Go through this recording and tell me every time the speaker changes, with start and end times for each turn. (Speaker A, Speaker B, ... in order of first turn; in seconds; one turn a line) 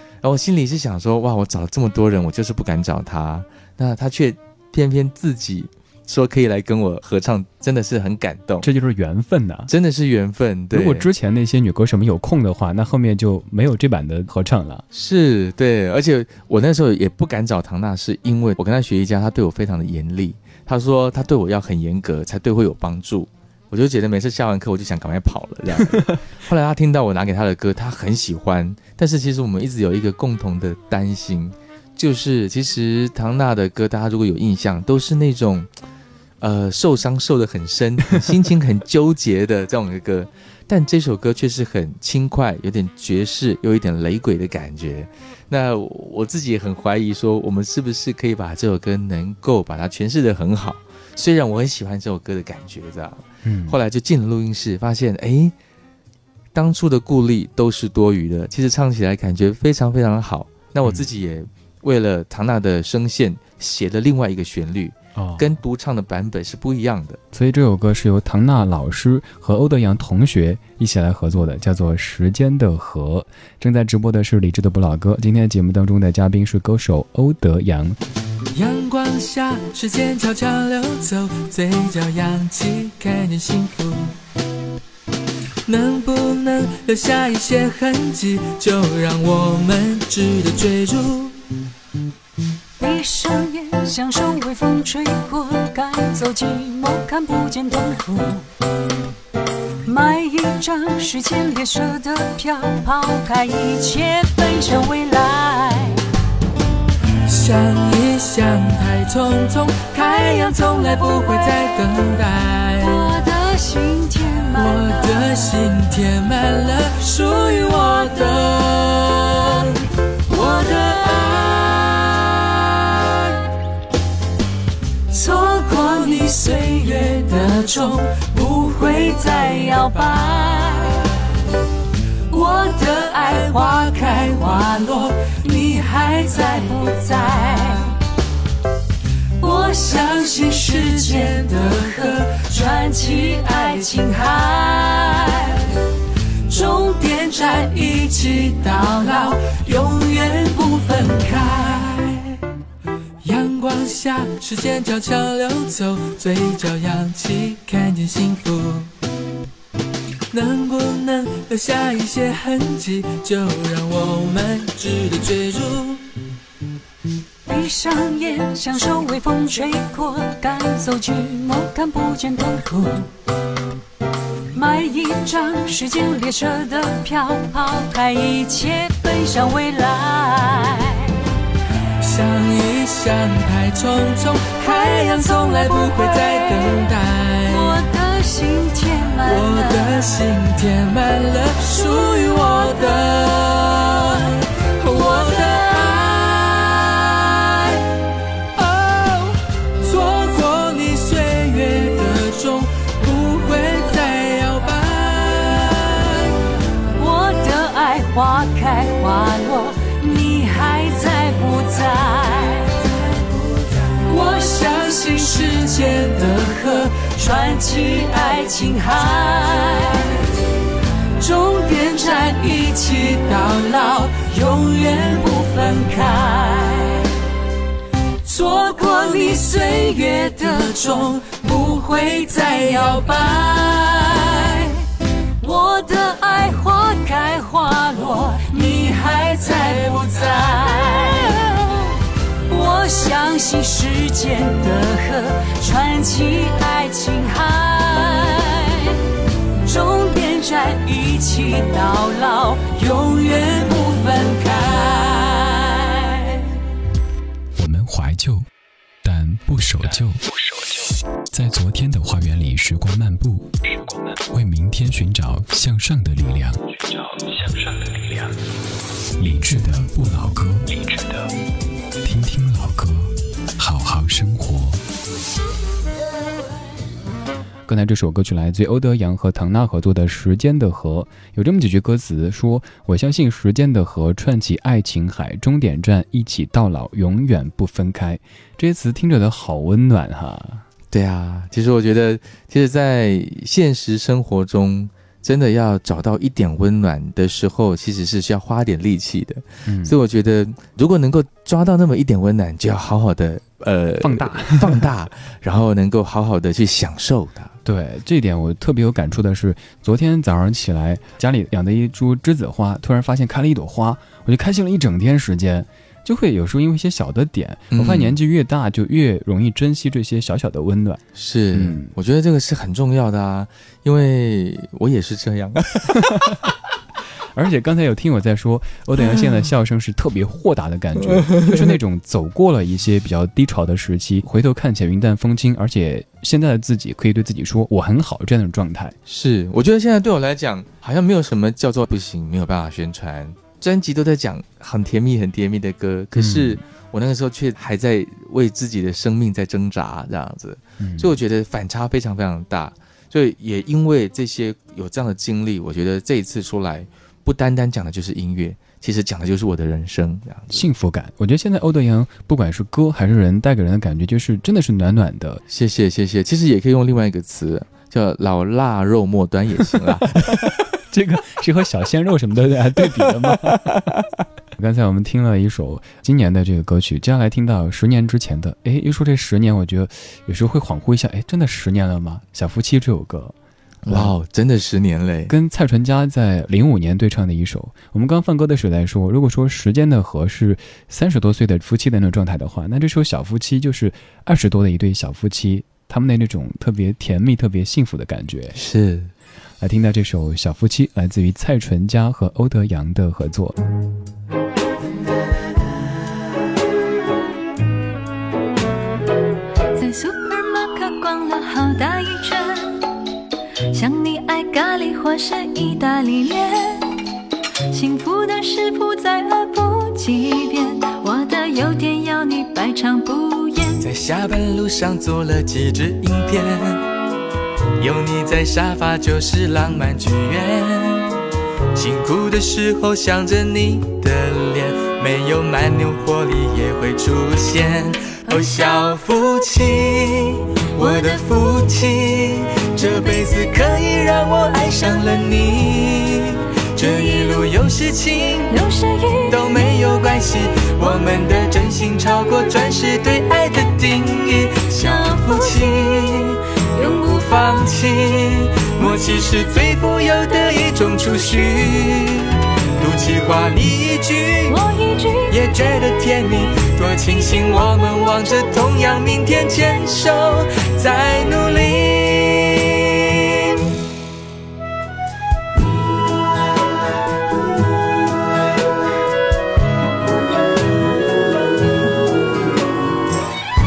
Speaker A: 0.2-8.7
Speaker B: 8.6-9.7
Speaker A: 9.7-11.1
Speaker B: 10.7-14.8
Speaker A: 14.9-35.7
Speaker A: 36.4-55.5
Speaker B: 53.4-53.8
Speaker A: 56.5-67.2
Speaker B: 65.2-65.5
Speaker B: 67.3-78.0
Speaker C: 78.5-84.2
Speaker C: 85.7-91.3
Speaker D: 92.8-98.4
Speaker D: 99.8-106.0
Speaker C: 107.2-113.1
Speaker D: 112.8-115.5
Speaker C: 114.5-119.7
Speaker C: 120.3-122.3
Speaker D: 120.3-120.9
Speaker C: 125.1-130.8
Speaker D: 125.8-126.2
Speaker D: 129.3-130.9
Speaker D: 132.3-132.8
Speaker C: 132.3-137.7
Speaker D: 136.5-137.5
Speaker D: 139.4-145.6
Speaker C: 139.4-143.9
Speaker C: 146.5-152.4
Speaker C: 153.2-158.9
Speaker C: 160.3-166.0
Speaker D: 167.4-173.1
Speaker D: 174.5-181.1
Speaker C: 182.0-187.8
Speaker D: 185.3-186.4
Speaker D: 187.5-190.2
Speaker C: 189.2-196.7
Speaker D: 194.9-195.9
Speaker C: 198.6-206.3
Speaker D: 206.9-212.8
Speaker C: 212.8-217.2
Speaker D: 214.1-215.5
Speaker D: 217.1-220.1
Speaker C: 221.2-226.0
Speaker D: 221.9-222.7
Speaker D: 225.1-227.1
Speaker C: 228.3-233.5
Speaker D: 228.4-230.7
Speaker D: 232.5-234.7
Speaker D: 235.4-241.9
Speaker C: 239.4-240.7
Speaker D: 242.5-249.0
Speaker D: 249.6-256.4
Speaker B: 257.6-258.5
Speaker B: 259.0-260.2
Speaker B: 261.3-263.5
Speaker B: 264.2-266.7
Speaker B: 269.2-270.7
Speaker B: 272.0-274.8
Speaker B: 277.7-290.6
Speaker A: 290.9-307.5
Speaker B: 299.6-299.9
Speaker B: 304.0-304.9
Speaker B: 307.6-321.0
Speaker A: 317.7-318.1
Speaker A: 321.1-326.3
Speaker B: 321.5-321.9
Speaker B: 327.3-338.9
Speaker A: 339.1-360.6
Speaker B: 346.1-346.6
Speaker B: 350.8-351.2
Speaker B: 360.5-365.4
Speaker A: 365.5-370.6
Speaker B: 370.9-373.8
Speaker A: 373.2-373.5
Speaker B: 374.6-383.3
Speaker A: 383.8-385.3
Speaker B: 383.9-384.1
Speaker B: 385.3-398.6
Speaker A: 398.5-399.1
Speaker B: 399.6-403.6
Speaker E: 409.7-412.8
Speaker E: 413.7-416.9
Speaker E: 417.7-423.9
Speaker C: 423.8-426.9
Speaker C: 427.8-431.1
Speaker C: 431.7-448.5
Speaker E: 448.5-449.9
Speaker C: 449.3-464.6
Speaker E: 454.8-455.9
Speaker E: 456.7-457.7
Speaker E: 464.5-465.8
Speaker C: 465.3-473.2